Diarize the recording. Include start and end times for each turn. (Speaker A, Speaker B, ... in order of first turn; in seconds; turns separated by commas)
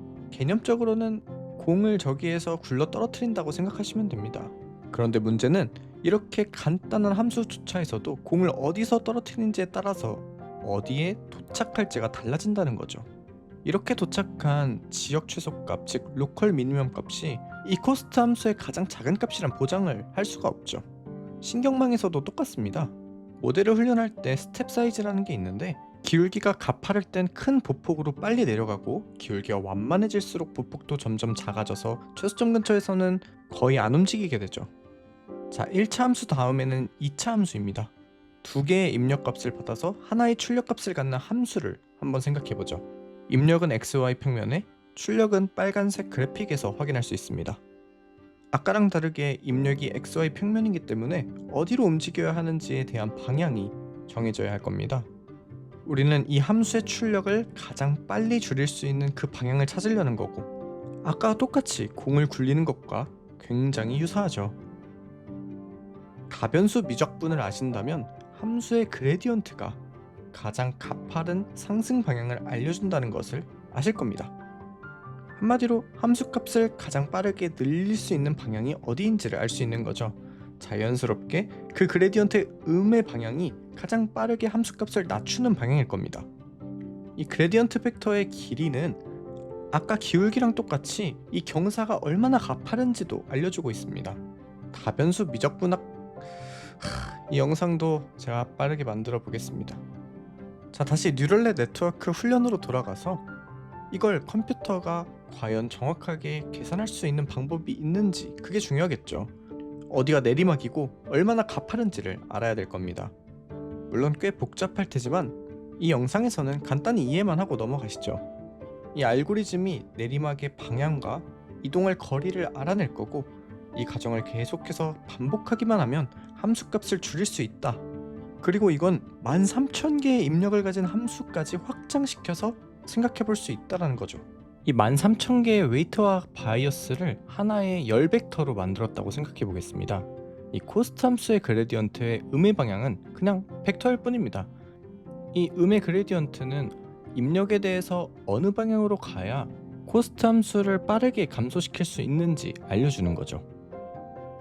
Speaker A: 0.3-13.1, Speaker A: 13.7-20.9, Speaker A: 21.4-34.7, Speaker A: 35.5-37.9, Speaker A: 38.4-47.6, Speaker A: 48.5-55.1, Speaker A: 55.9-60.5, Speaker A: 61.0-64.6, Speaker A: 66.3-69.8, Speaker A: 70.3-74.3, Speaker A: 75.4-86.3, Speaker A: 87.2-89.0, Speaker A: 89.7-94.2, Speaker A: 94.7-95.9, Speaker A: 96.7-99.8, Speaker A: 100.7-103.2, Speaker A: 103.9-109.3, Speaker A: 109.9-113.1, Speaker A: 113.9-118.2, Speaker A: 118.9-127.8, Speaker A: 128.4-144.5, Speaker A: 145.3-153.4